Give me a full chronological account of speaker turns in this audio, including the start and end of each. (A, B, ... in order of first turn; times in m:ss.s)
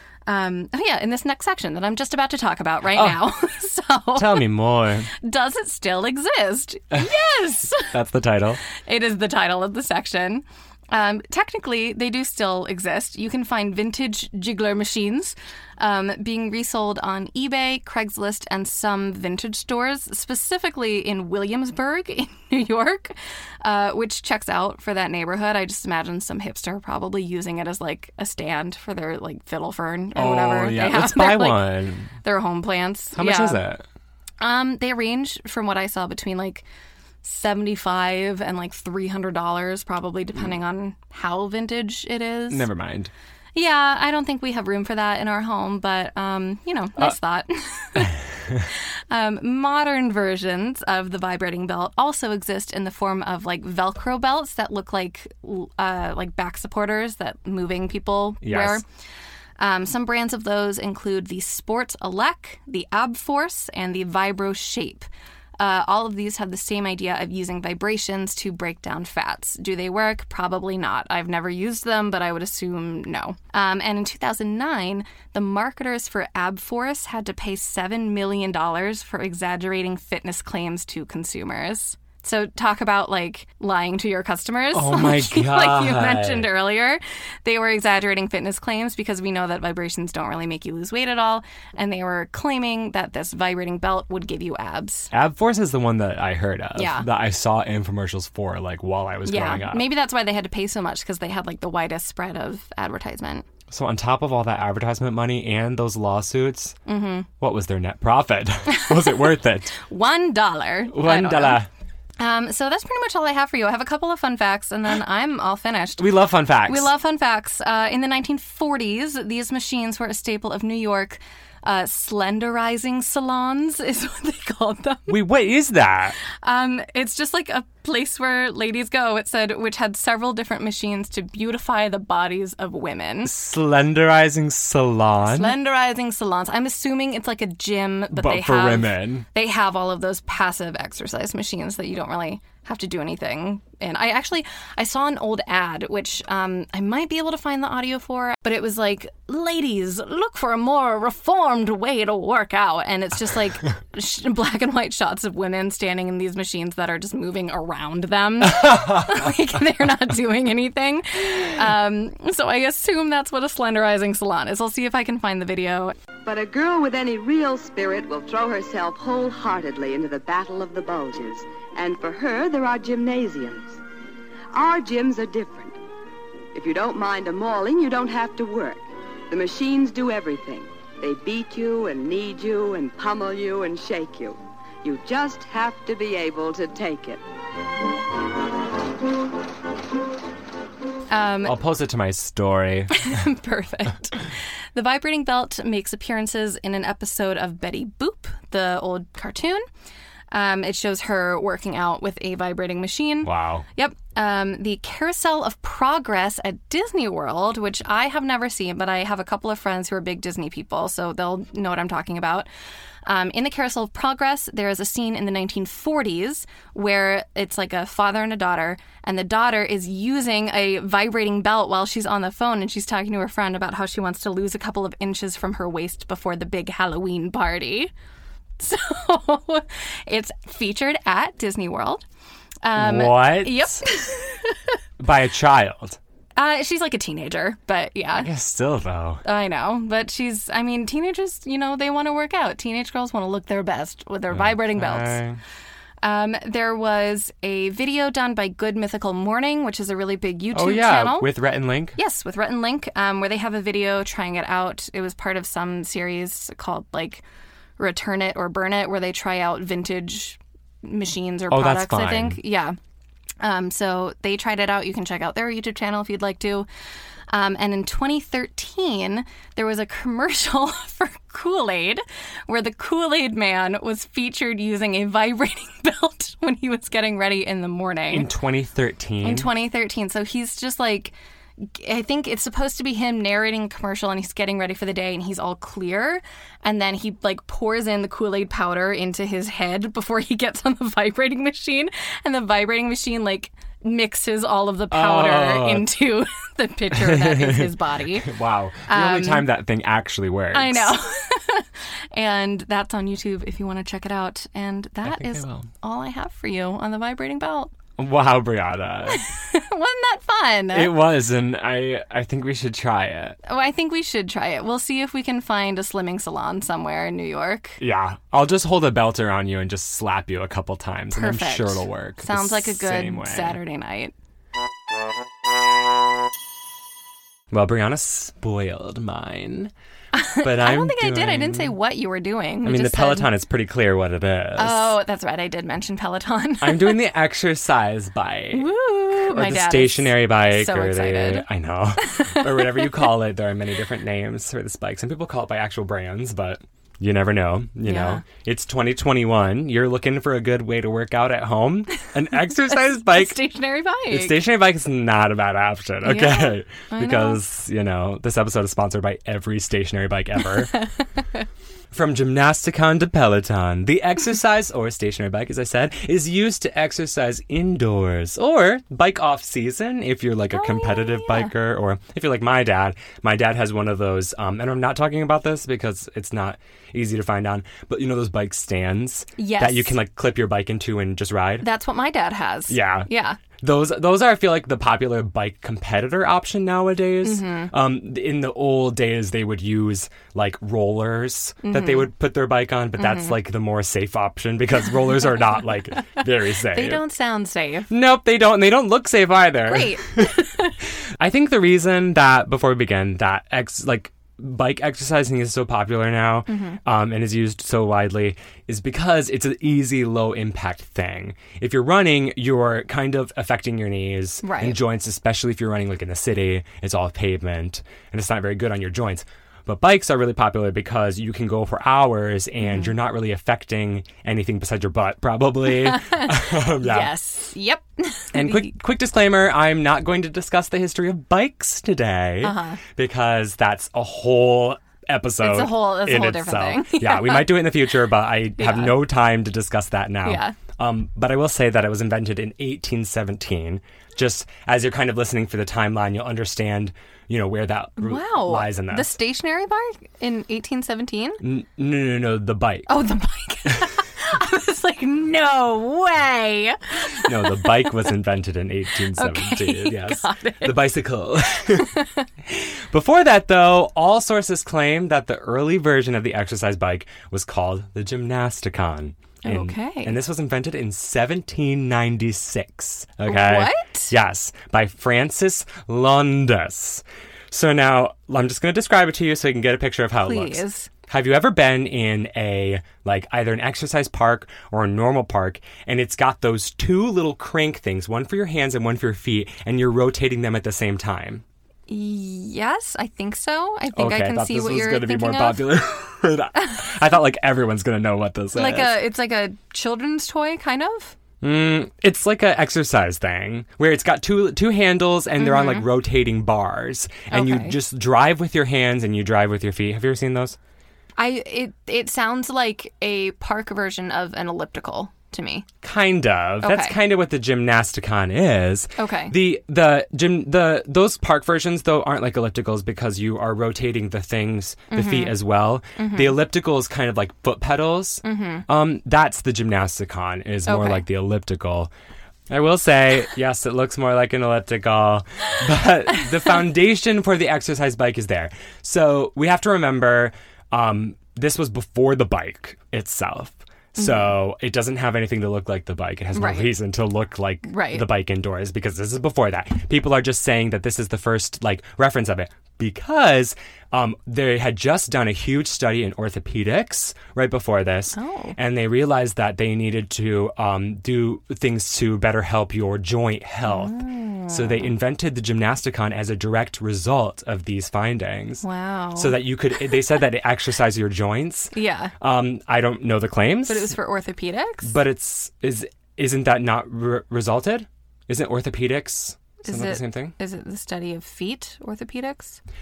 0:00.3-0:04.4 A
0:04.2-0:05.1 B
0:05.1-0:07.9 A
0:07.8-0:08.6 B
0:08.7-0:31.7 A
0:30.1-0:32.1 B
0:32.2-0:33.6 A
0:33.2-0:33.8 B
0:34.4-0:36.6 A
0:37.2-0:42.6 A
0:42.5-0:43.1 B
0:43.5-0:48.2 A
0:48.7-0:58.8 A
0:58.4-0:58.8 B
0:59.6-1:05.1 A
1:05.6-1:35.1 A
1:24.7-1:26.5 B
1:35.1-1:39.8 B
1:36.7-1:37.1 A
1:39.2-1:43.5 A
1:43.7-1:46.8 B
1:46.8-1:47.3 A
1:47.4-1:49.7 B
1:48.8-1:51.6 A
1:50.9-1:51.7 B
1:52.2-1:56.0 A
1:56.0-1:56.9 B
1:56.7-2:05.2 A
2:05.1-2:06.2 B
2:06.3-2:13.3 A
2:13.2-2:15.5 B
2:15.2-2:46.0 A
2:18.1-2:19.2 B
2:46.2-2:53.8 C
2:54.5-2:55.8 C
2:56.5-3:07.2 C
3:11.1-3:11.6 A
3:11.4-3:13.1 B
3:12.9-3:19.6 A
3:20.3-3:32.5 A
3:23.2-3:23.6 B
3:33.0-3:47.9 A
3:48.6-3:52.0 A
3:52.6-3:54.8 A
3:52.8-3:53.8 B
3:55.0-3:56.0 B
3:56.4-3:58.3 A
3:58.2-3:59.2 B
3:59.2-4:05.2 A
4:04.3-4:05.4 B
4:06.0-4:11.3 A
4:10.5-4:12.0 B
4:12.0-4:17.2 A
4:17.8-4:22.8 A
4:21.5-4:22.4 B
4:23.4-4:26.7 A
4:27.3-4:38.3 A
4:38.1-4:39.5 B
4:39.2-4:58.3 A
4:54.9-4:55.9 B
4:56.9-5:00.9 B
4:58.9-4:59.5 A
5:00.5-5:07.7 A
5:05.0-5:05.7 B
5:08.0-5:09.2 B
5:09.1-5:10.9 A
5:10.7-5:13.4 B
5:13.4-5:17.8 A
5:17.8-5:23.6 B
5:21.1-5:24.1 A
5:27.5-5:29.7 B
5:30.1-5:33.3 A
5:30.4-5:31.7 B
5:32.6-5:35.0 B
5:34.6-5:37.0 A
5:36.6-5:53.4 B
5:38.5-5:41.5 A
5:42.0-5:43.1 A
5:47.8-5:48.2 A
5:52.7-5:54.4 A
5:54.1-6:00.8 B
5:56.0-5:57.4 A
6:00.7-6:01.4 A
6:01.9-6:21.6 B
6:10.5-6:11.5 A
6:19.4-6:20.0 A
6:21.6-6:23.4 A
6:22.7-6:37.0 B
6:27.2-6:27.7 A
6:31.6-6:32.1 A
6:33.0-6:33.3 A
6:36.6-6:37.9 A
6:37.9-6:40.4 B
6:39.7-6:40.7 A
6:41.2-7:07.1 B
6:46.5-6:46.8 A
6:54.4-6:54.8 A
7:02.6-7:02.9 A
7:05.7-7:08.7 A
7:08.3-7:29.1 B
7:12.4-7:12.8 A
7:15.4-7:17.6 A
7:18.6-7:19.0 A
7:20.2-7:20.6 A
7:28.0-7:31.4 A
7:31.4-7:32.9 B
7:32.9-7:37.9 A
7:37.1-8:11.4 B
7:39.2-7:40.8 A
7:41.7-7:42.2 A
7:49.4-7:50.2 A
7:53.3-7:54.1 A
8:00.2-8:00.9 A
8:11.9-8:15.6 A
8:13.9-8:19.0 B
8:18.5-8:21.2 A
8:21.4-8:30.6 B
8:25.4-8:25.9 A
8:27.3-8:27.7 A
8:31.2-8:35.7 A
8:35.8-8:51.9 B
8:36.6-8:36.9 A
8:39.0-8:39.3 A
8:44.9-8:45.4 A
8:46.0-8:46.4 A
8:48.2-8:48.6 A
8:50.6-8:51.0 A
8:52.5-9:28.6 B
9:04.0-9:04.3 A
9:06.3-9:06.7 A
9:07.6-9:08.0 A
9:18.1-9:18.6 A
9:23.6-9:24.9 A
9:28.6-9:29.4 A
9:29.2-9:33.9 B
9:31.7-9:32.1 A
9:33.7-9:34.9 A
9:34.8-9:40.3 B
9:39.6-9:42.6 A